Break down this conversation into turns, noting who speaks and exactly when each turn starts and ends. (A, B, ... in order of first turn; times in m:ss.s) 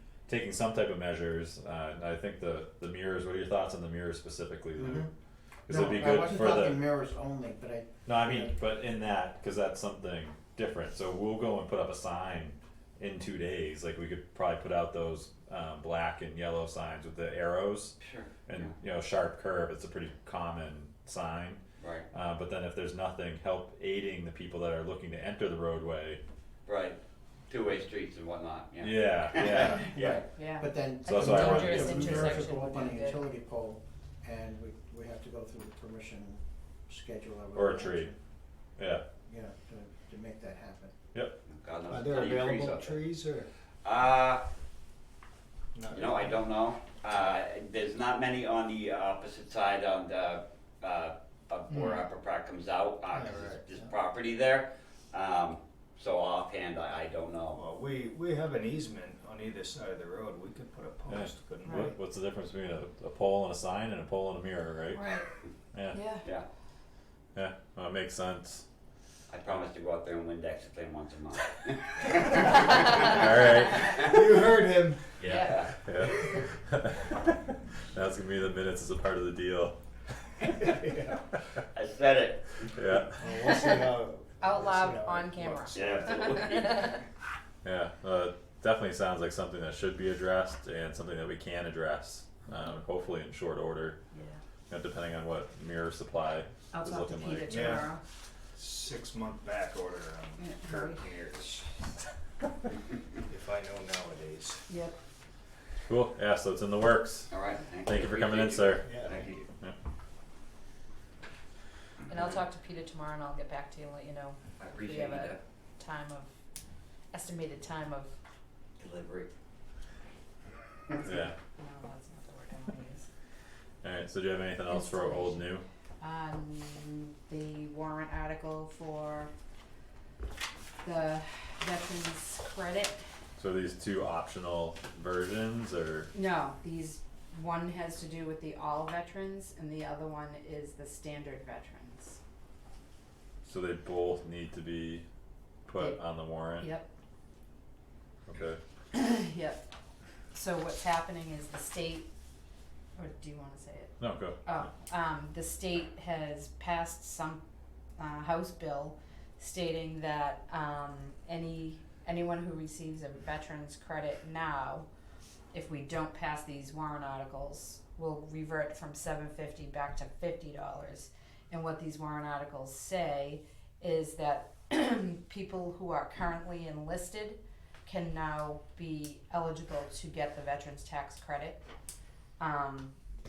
0:00.3-0:05.1 A
0:04.8-0:05.1 B
0:05.7-0:06.8 A
0:05.7-0:08.5 B
0:08.0-0:26.2 A
0:18.0-0:18.7 C
0:21.8-0:22.1 C
0:26.6-0:27.0 C
0:27.5-0:30.2 C
0:28.8-0:29.9 A
0:29.7-0:38.2 B
0:30.4-0:33.3 D
0:31.0-0:32.5 A
0:37.5-0:38.1 A
0:38.8-0:39.0 A
0:39.2-0:40.9 B
0:41.5-0:43.0 C
0:41.9-0:43.5 E
0:43.8-0:44.4 C
0:45.7-0:46.4 E
0:45.9-0:57.6 C
0:53.1-0:53.9 E
0:57.5-1:02.0 E
1:01.1-1:05.0 A
1:04.9-1:05.2 D
1:05.7-1:06.0 A
1:05.9-1:06.2 D
1:07.3-1:08.6 A
1:09.3-1:13.1 C
1:12.9-1:14.0 A
1:13.9-1:15.5 E
1:15.2-1:15.8 C
1:15.2-1:15.6 D
1:15.8-1:19.7 A
1:20.6-1:21.2 E
1:21.7-1:22.7 C
1:22.7-1:23.2 A
1:23.1-1:26.9 E
1:23.4-1:27.0 D
1:25.7-1:26.9 C
1:27.6-1:34.0 A
1:34.1-1:34.4 D
1:34.7-1:37.9 A
1:36.7-1:38.0 D
1:37.5-1:37.9 E
1:38.5-1:41.7 E
1:40.4-1:41.0 D
1:43.2-1:44.6 E
1:44.7-1:45.0 D
1:45.9-1:47.3 A
1:47.3-1:49.4 C
1:47.8-1:48.9 A
1:48.8-1:49.4 E
1:52.1-1:56.3 D
1:54.6-1:55.4 C
1:57.1-1:58.1 D
1:58.8-1:59.3 C
2:01.0-2:03.1 D
2:01.0-2:01.4 A
2:03.8-2:05.6 A
2:04.7-2:05.4 D
2:06.0-2:09.3 D
2:10.8-2:13.0 D
2:13.4-2:16.1 A
2:16.1-2:22.2 D
2:23.4-2:25.0 A
2:25.7-2:26.7 A
2:26.6-2:26.8 D
2:28.3-2:28.6 A
2:28.9-2:29.6 D
2:30.3-2:32.1 D
2:33.0-2:37.4 D
2:34.0-2:34.6 A
2:38.0-2:44.8 D
2:45.5-3:01.6 D
3:02.4-3:02.9 D